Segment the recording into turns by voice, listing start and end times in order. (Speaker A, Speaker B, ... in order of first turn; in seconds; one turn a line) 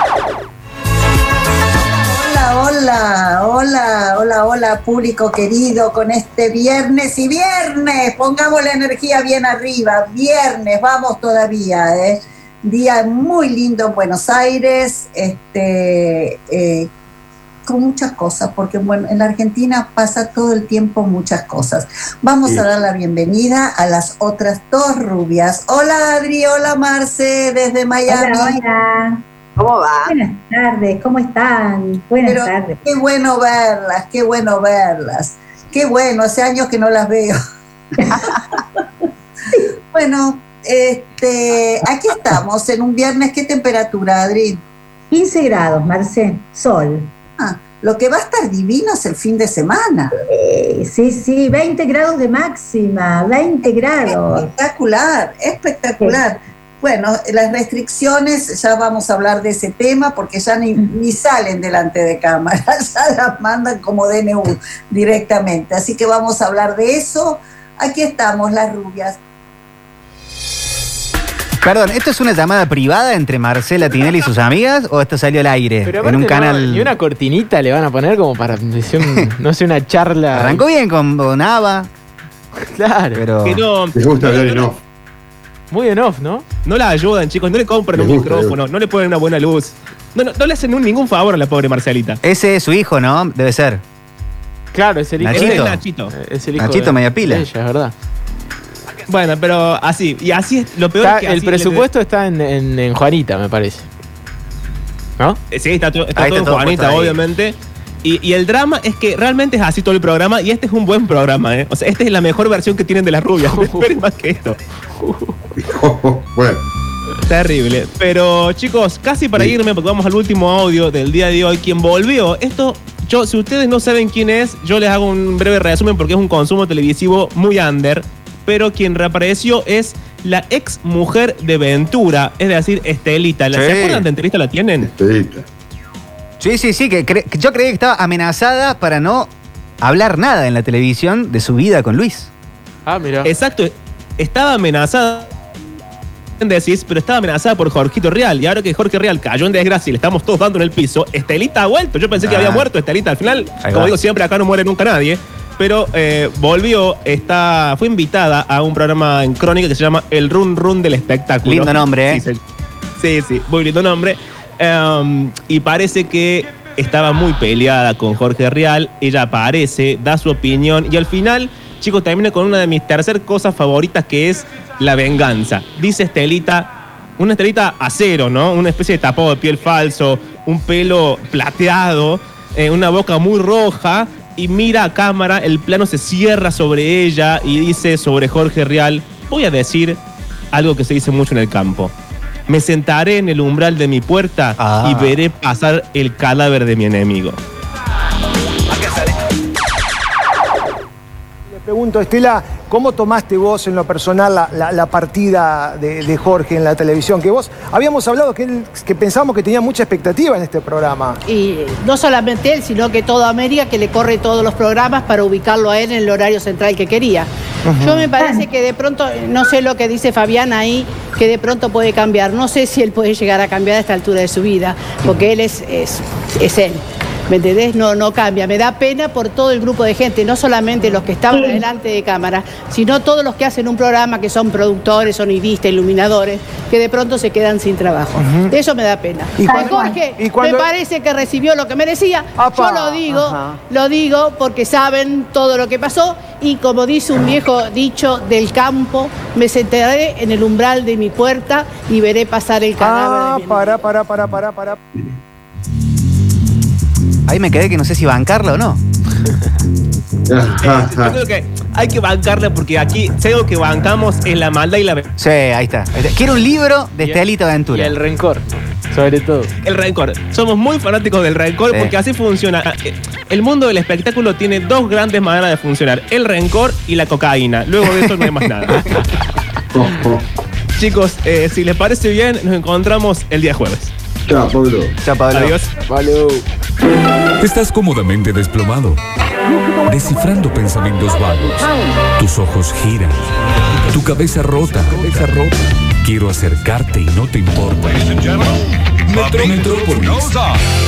Speaker A: 2.1-16.9
Speaker A: 17.7-28.6
Speaker B: 28.1-29.2
Speaker A: 29.6-30.1
Speaker B: 30.1-32.8
Speaker A: 32.2-37.4
Speaker A: 39.9-44.6
Speaker B: 45.1-47.1
Speaker A: 47.4-50.1
Speaker B: 50.3-54.5
Speaker A: 53.6-69.2
Speaker C: 71.6-76.9
Speaker D: 75.8-80.6
Speaker C: 80.3-81.9
Speaker D: 82.6-83.2
Speaker C: 83.1-83.6
Speaker E: 83.4-84.7
Speaker F: 83.9-84.8
Speaker D: 85.7-86.4
Speaker E: 86.6-92.2
Speaker F: 88.0-88.5
Speaker C: 92.2-93.8
Speaker D: 94.7-97.9
Speaker C: 95.2-95.8
Speaker E: 95.3-96.1
Speaker C: 96.6-97.5
Speaker E: 99.1-101.9
Speaker D: 101.0-103.8
Speaker E: 105.5-114.6
Speaker C: 106.2-107.2
Speaker D: 113.5-113.8
Speaker D: 115.0-115.3
Speaker F: 115.6-116.6
Speaker E: 117.2-134.9
Speaker C: 133.5-134.1
Speaker F: 134.9-135.4
Speaker C: 136.4-139.3
Speaker C: 139.8-142.3
Speaker D: 142.8-143.3
Speaker E: 143.2-145.3
Speaker E: 146.4-162.4
Speaker C: 152.2-152.7
Speaker C: 153.6-153.9
Speaker C: 161.4-162.2
Speaker E: 163.0-190.0
Speaker E: 190.5-191.9
Speaker E: 192.5-197.4
Speaker C: 194.6-195.2
Speaker G: 201.5-211.2
Speaker H: 211.2-217.3
Speaker G: 217.7-218.0
Speaker H: 217.8-253.8
Speaker G: 238.2-238.5
Speaker G: 240.2-240.6
Speaker G: 242.4-243.6
Speaker G: 252.8-254.8
Speaker C: 257.3-258.8
Speaker F: 260.3-261.1
Speaker E: 260.6-265.0
Speaker C: 265.2-268.0
Speaker D: 267.0-269.5
Speaker E: 269.6-278.9
Speaker C: 277.9-278.4
Speaker F: 279.7-280.2
Speaker E: 280.8-283.9
Speaker F: 284.3-284.9
Speaker C: 285.0-285.6
Speaker E: 285.3-285.7
Speaker D: 285.9-286.4
Speaker I: 287.4-289.0
Speaker I: 289.9-293.2
Speaker I: 293.8-298.3
Speaker I: 299.0-300.4